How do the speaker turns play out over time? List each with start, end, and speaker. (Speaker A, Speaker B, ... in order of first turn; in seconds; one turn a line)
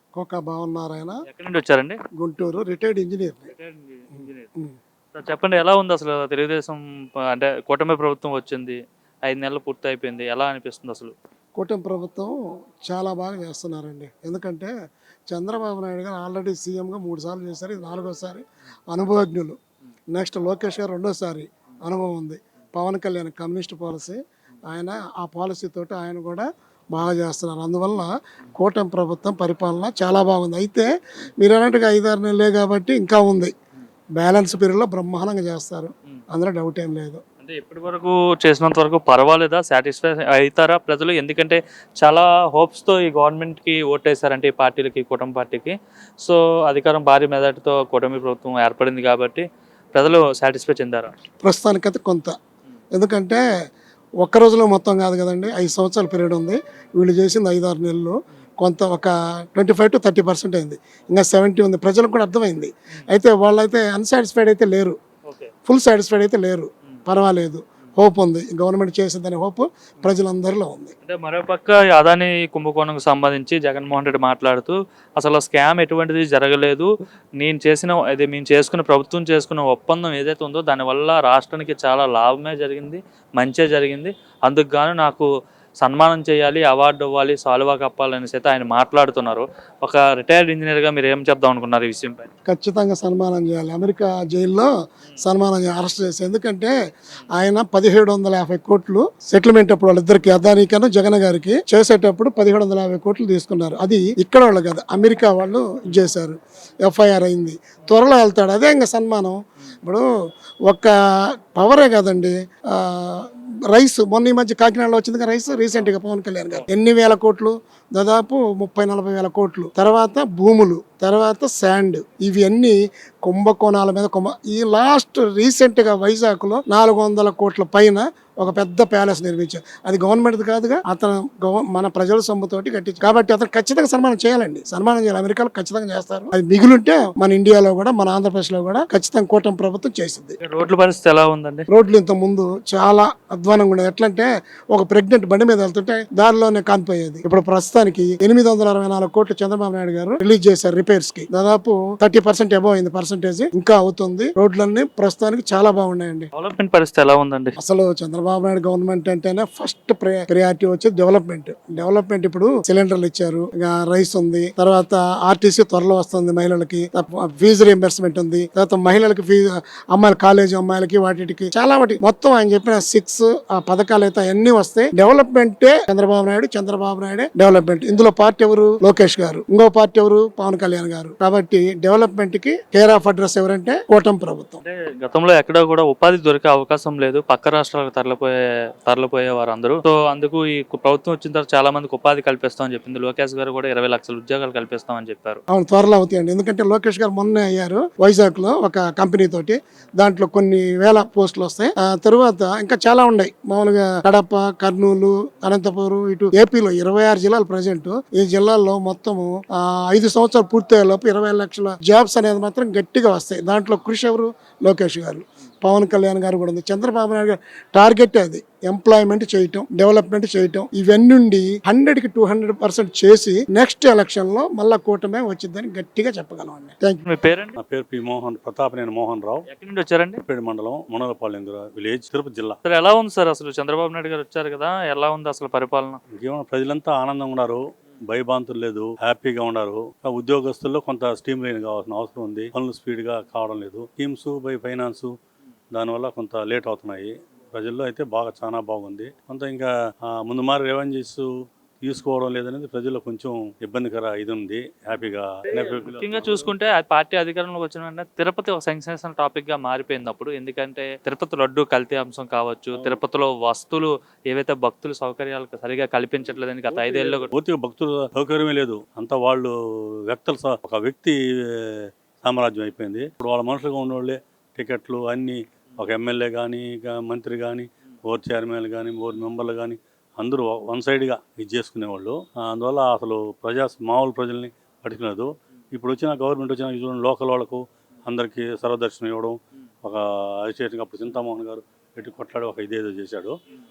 Speaker A: 0.2-1.2
Speaker B: 1.3-2.0
Speaker A: 2.2-3.5
Speaker B: 3.5-4.5
Speaker B: 5.2-11.1
Speaker A: 11.6-12.3
Speaker A: 12.9-14.7
Speaker A: 15.3-19.6
Speaker A: 20.1-30.9
Speaker A: 31.4-33.5
Speaker A: 34.2-37.2
Speaker B: 37.4-51.1
Speaker A: 51.4-52.4
Speaker A: 52.9-53.4
Speaker A: 54.2-65.0
Speaker B: 65.3-65.5
Speaker A: 65.7-70.9
Speaker B: 71.0-76.9
Speaker B: 77.4-85.3
Speaker B: 85.8-92.3
Speaker A: 92.5-96.7
Speaker A: 97.3-110.1
Speaker A: 110.7-110.9
Speaker A: 111.5-140.4
Speaker B: 140.4-141.7
Speaker A: 141.7-156.3
Speaker B: 156.4-157.6
Speaker A: 157.6-184.6
Speaker B: 184.6-188.3
Speaker B: 188.9-195.4
Speaker A: 195.5-227.0
Speaker B: 227.1-227.6
Speaker C: 227.6-229.4
Speaker B: 229.5-230.2
Speaker C: 230.3-232.6
Speaker B: 232.7-236.0
Speaker C: 236.2-245.1
Speaker C: 245.7-251.3
Speaker C: 251.8-256.5
Speaker B: 255.5-267.3
Speaker C: 266.7-269.5
Speaker C: 270.1-293.4